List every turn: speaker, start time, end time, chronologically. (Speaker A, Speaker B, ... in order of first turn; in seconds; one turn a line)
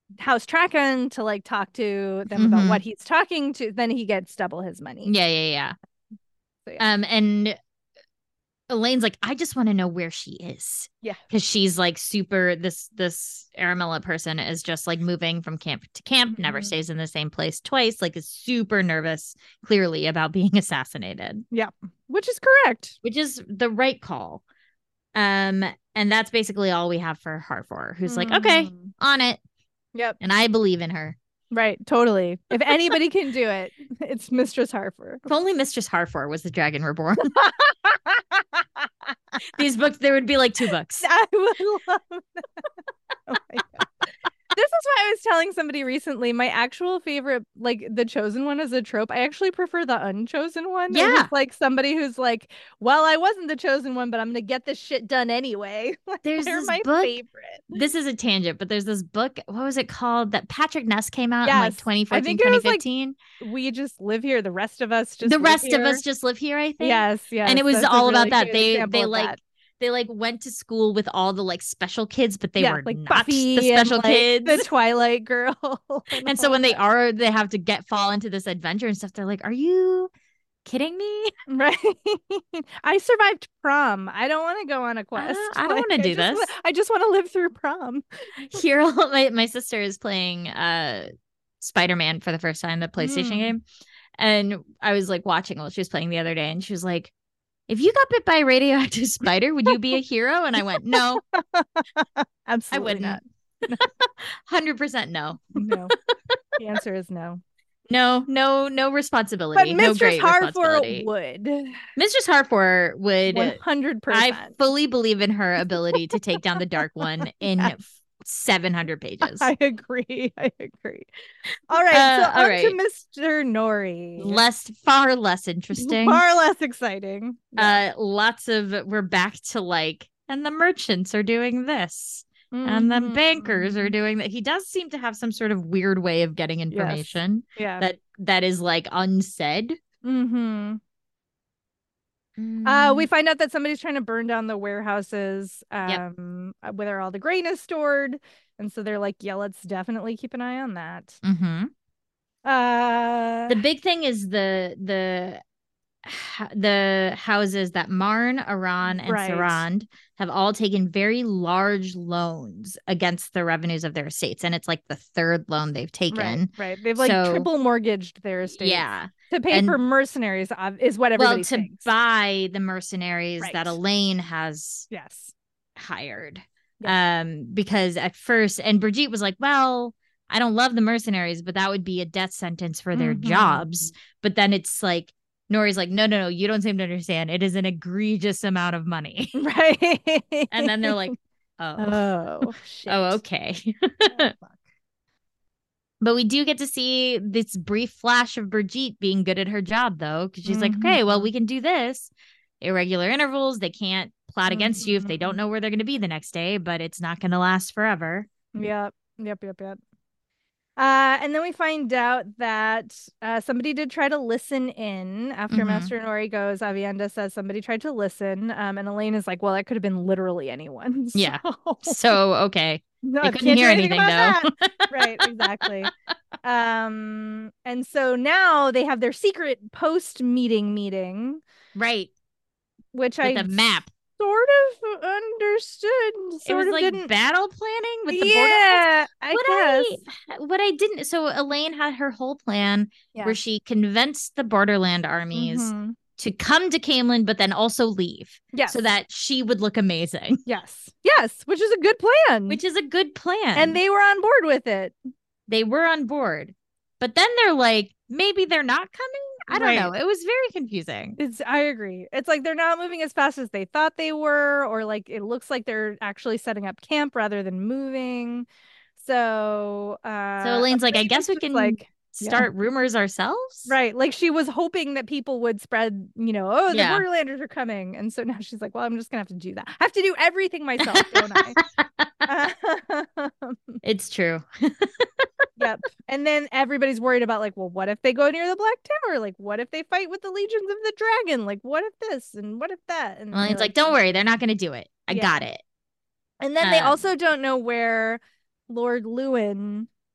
Speaker A: 0.2-5.1
Speaker B: 2.3-2.8
Speaker B: 5.0-5.7
Speaker B: 6.8-7.5
Speaker B: 8.7-21.4
Speaker A: 16.3-16.7
Speaker A: 21.5-23.0
Speaker B: 23.0-24.4
Speaker B: 25.1-29.4
Speaker A: 28.0-28.9
Speaker B: 30.2-31.1
Speaker A: 31.5-35.2
Speaker B: 32.7-32.9
Speaker B: 35.3-37.3
Speaker A: 37.3-39.1
Speaker B: 39.5-41.0
Speaker A: 41.0-42.7
Speaker A: 43.3-57.8
Speaker B: 50.9-51.3
Speaker B: 56.2-57.2
Speaker B: 57.7-63.2
Speaker A: 61.4-62.8
Speaker A: 63.4-66.0
Speaker B: 65.2-74.7
Speaker A: 66.8-69.4
Speaker A: 72.6-76.8
Speaker B: 76.2-80.1
Speaker B: 80.6-81.3
Speaker A: 81.5-88.0
Speaker B: 85.2-86.5
Speaker B: 88.4-91.1
Speaker B: 91.6-93.6
Speaker A: 93.0-93.5
Speaker B: 94.2-97.1
Speaker B: 97.7-101.2
Speaker A: 100.9-103.9
Speaker B: 102.7-103.2
Speaker B: 103.8-106.4
Speaker A: 105.5-105.9
Speaker A: 106.6-107.4
Speaker B: 107.9-111.1
Speaker A: 109.5-111.7
Speaker B: 112.0-119.5
Speaker A: 113.3-114.5
Speaker A: 117.4-117.7
Speaker A: 119.2-121.1
Speaker A: 121.7-124.4
Speaker B: 121.9-122.8
Speaker B: 124.2-126.2
Speaker A: 125.7-127.8
Speaker B: 127.6-139.8
Speaker A: 132.5-133.9
Speaker A: 136.7-137.8
Speaker A: 140.0-140.8
Speaker B: 142.4-143.1
Speaker A: 142.6-151.2
Speaker B: 151.2-151.7
Speaker A: 152.4-153.6
Speaker B: 153.5-155.4
Speaker B: 156.0-167.5
Speaker A: 158.9-159.6
Speaker A: 166.1-171.9
Speaker B: 168.6-169.8
Speaker B: 171.2-174.9
Speaker A: 173.4-173.8
Speaker A: 174.9-175.3
Speaker B: 175.8-189.3
Speaker A: 182.9-183.7
Speaker A: 189.3-191.1
Speaker B: 190.5-194.3
Speaker A: 191.8-193.2
Speaker A: 194.1-194.6
Speaker B: 196.0-208.3
Speaker A: 200.4-201.3
Speaker A: 204.5-205.4
Speaker A: 208.5-209.8
Speaker A: 210.8-222.2
Speaker B: 215.5-215.9
Speaker B: 221.1-225.9
Speaker A: 223.0-225.9
Speaker A: 226.4-231.4
Speaker B: 231.7-232.1
Speaker A: 232.9-233.6
Speaker B: 233.2-233.9
Speaker A: 234.2-237.1
Speaker B: 236.4-250.4
Speaker A: 238.1-240.0
Speaker A: 243.1-243.4
Speaker A: 245.3-246.0
Speaker A: 248.5-248.8
Speaker A: 250.4-252.6
Speaker B: 252.5-253.8
Speaker A: 253.5-254.9
Speaker B: 255.5-261.2
Speaker A: 259.5-259.9
Speaker A: 261.2-272.5
Speaker B: 270.4-273.7
Speaker A: 273.7-281.6
Speaker B: 276.7-277.0
Speaker B: 280.8-282.3
Speaker A: 282.2-283.8
Speaker B: 283.8-285.4
Speaker A: 285.6-293.9
Speaker B: 293.3-295.6
Speaker A: 295.1-295.4
Speaker A: 296.4-299.9
Speaker B: 296.6-297.0